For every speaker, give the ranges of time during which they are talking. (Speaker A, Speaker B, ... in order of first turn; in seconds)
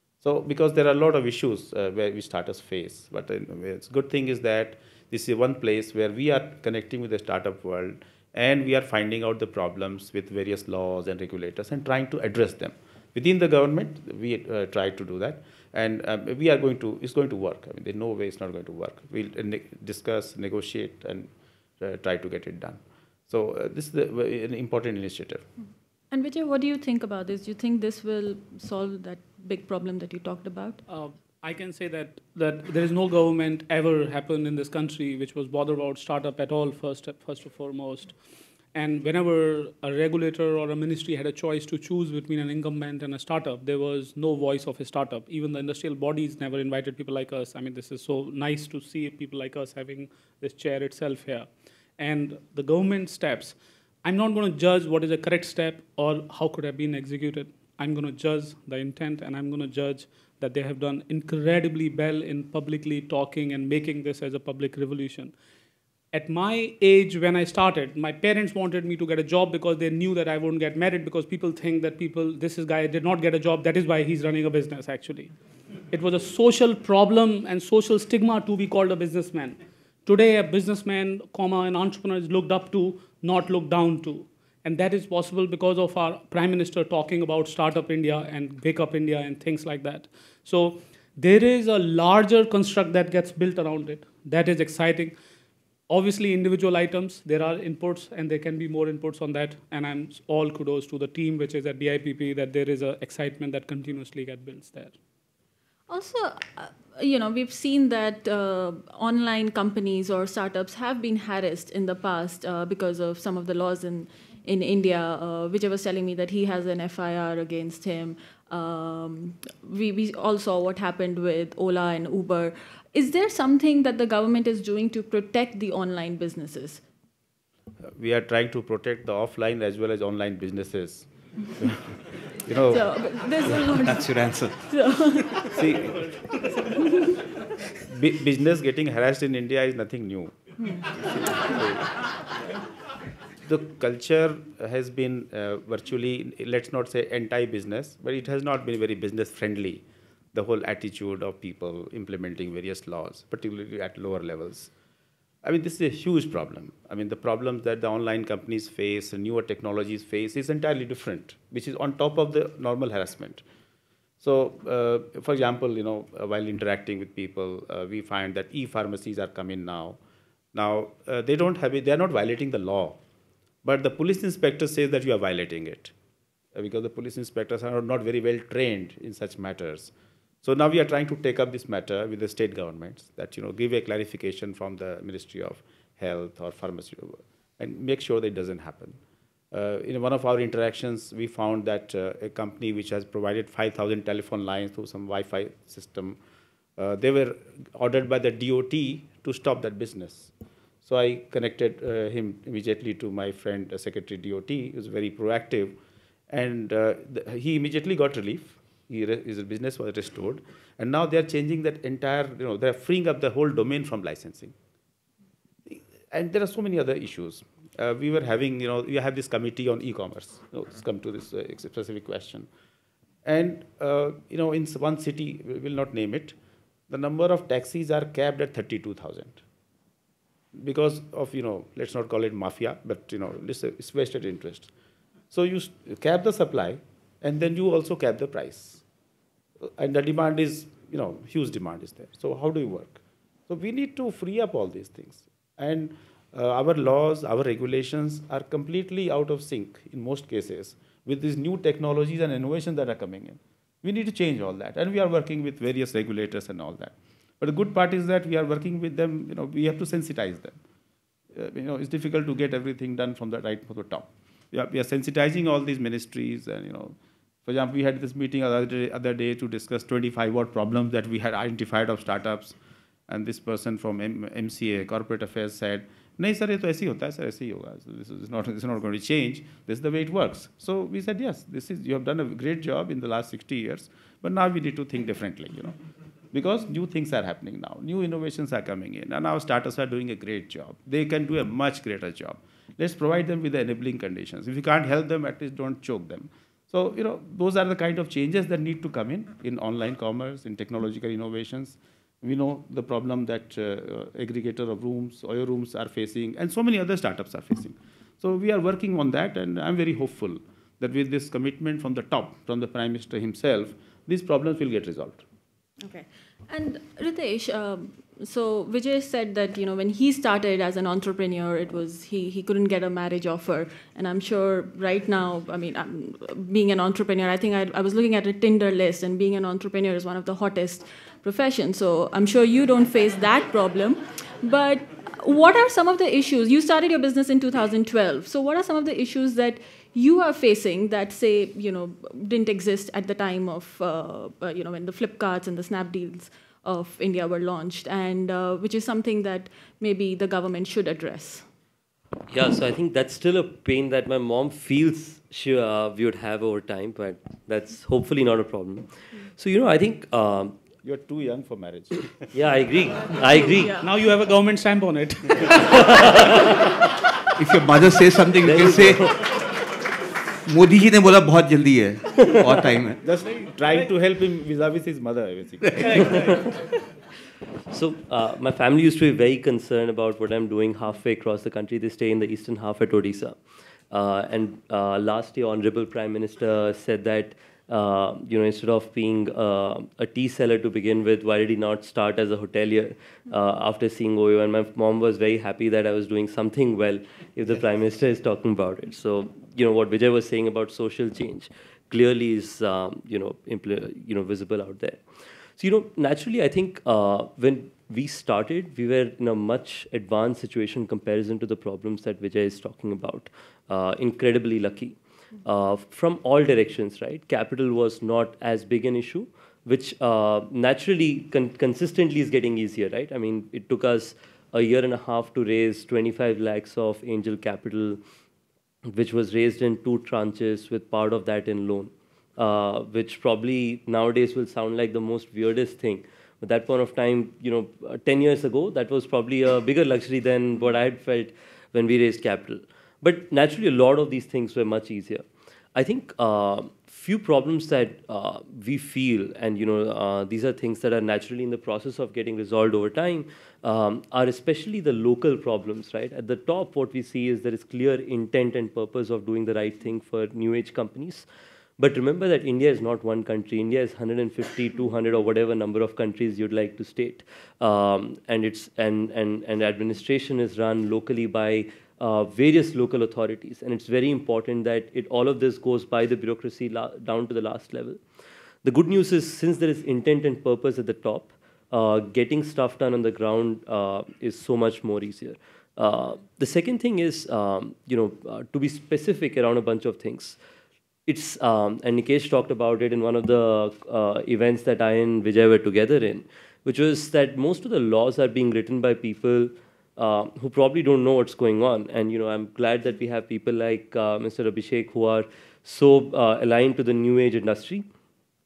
Speaker A: 0.2-25.5, 127.8-131.9, 132.4-132.9, 135.5-136.0, 137.9-140.4, 141.0-141.9, 143.4-154.7, 155.4-163.4, 164.2-170.0, 170.5-173.0, 173.6-175.9, 176.5-179.9, 180.4-189.0, 189.5-196.2, 196.8-200.3, 200.8-205.8, 206.3-214.6, 215.7-222.5, 223.2-226.4, 226.9-229.4, 230.6-234.7, 235.3-238.8, 239.6-260.6, 261.3-272.6, 273.1-285.8, 286.3-315.2, 360.8-362.3, 373.0-376.2
Speaker B: 26.1-30.8, 105.9-126.8, 132.7-134.1, 134.7-135.5, 315.8-351.5
Speaker C: 30.9-38.2, 38.7-51.5, 52.0-65.3, 66.1-75.3, 75.9-95.2, 95.9-105.0, 363.8-365.6
Speaker D: 133.6-134.6, 367.4-369.2, 370.5-373.0, 375.8-376.0
Speaker E: 352.3-360.6, 362.3-363.8, 365.8-366.4, 368.4-369.2, 377.7-383.4, 383.9-405.1, 405.6-428.0, 428.9-461.3, 461.8-478.0, 478.6-490.4, 491.1-507.9